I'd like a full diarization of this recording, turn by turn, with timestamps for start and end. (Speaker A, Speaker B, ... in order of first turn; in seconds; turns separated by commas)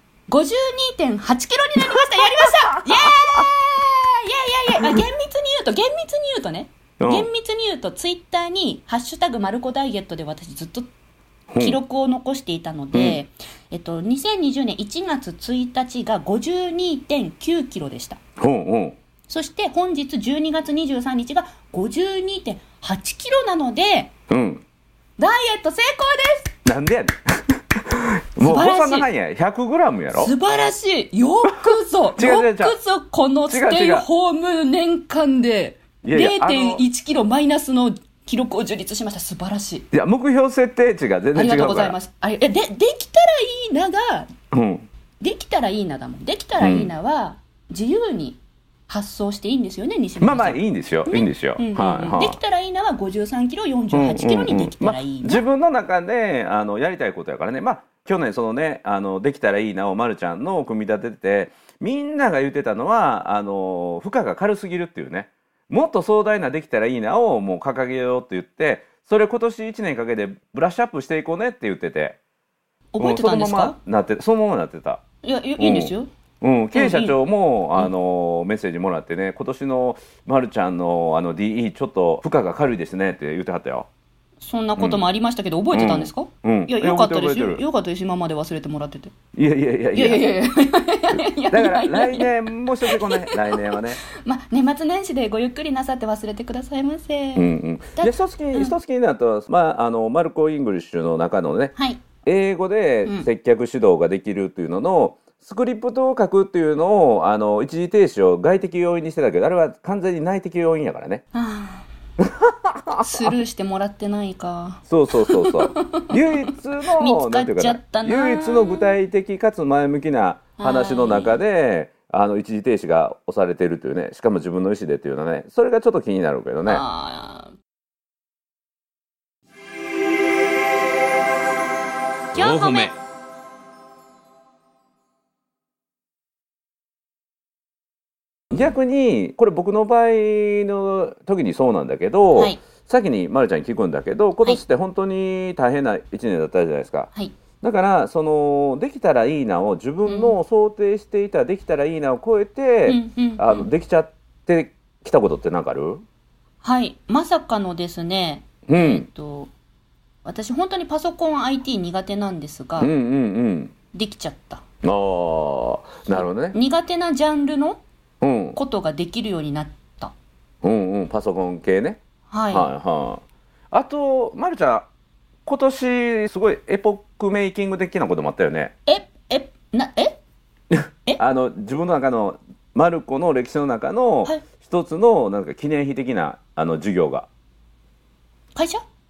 Speaker A: 0.3-10.9, Speaker B: 1.9-3.5, Speaker B: 7.0-7.3, Speaker B: 11.5-11.8, Speaker A: 11.6-18.2, Speaker B: 12.9-13.2, Speaker B: 18.4-19.0, Speaker A: 19.3-24.1, Speaker B: 24.3-24.6, Speaker A: 25.2-26.5, Speaker B: 26.6-30.3, Speaker A: 28.4-29.1, Speaker A: 30.1-39.9, Speaker B: 31.5-32.8, Speaker B: 33.5-34.1, Speaker B: 36.0-36.8, Speaker B: 39.9-42.0, Speaker A: 41.3-44.3, Speaker B: 44.5-44.9, Speaker A: 45.2-55.4, Speaker B: 46.6-46.9, Speaker B: 50.2-52.4, Speaker B: 53.9-72.2, Speaker A: 72.9-73.8, Speaker B: 73.0-75.0, Speaker A: 75.2-76.1, Speaker B: 75.6-83.9, Speaker A: 76.7-77.2, Speaker A: 84.4-89.1, Speaker B: 85.7-87.6, Speaker B: 89.3-90.3, Speaker A: 89.9-98.8, Speaker B: 91.1-94.0, Speaker B: 97.4-111.2, Speaker A: 101.8-102.0, Speaker A: 111.3-111.9, Speaker B: 112.2-113.3, Speaker A: 113.0-118.9, Speaker B: 114.9-126.8, Speaker A: 120.6-121.4, Speaker A: 126.7-127.5, Speaker A: 132.3-132.9, Speaker B: 132.3-132.9, Speaker B: 138.5-147.1, Speaker A: 142.3-142.6, Speaker B: 147.6-156.0, Speaker A: 150.1-150.4, Speaker A: 152.9-153.7, Speaker A: 156.6-159.5, Speaker B: 158.7-159.1, Speaker A: 160.2-162.9, Speaker B: 162.8-163.7, Speaker A: 163.9-164.6, Speaker B: 164.8-166.6, Speaker A: 166.1-167.8, Speaker B: 168.2-168.6, Speaker A: 168.6-170.1, Speaker B: 170.6-172.0, Speaker A: 172.3-172.7, Speaker B: 172.5-174.9, Speaker B: 175.4-178.7, Speaker A: 178.9-180.2, Speaker B: 180.7-187.3, Speaker A: 188.6-188.8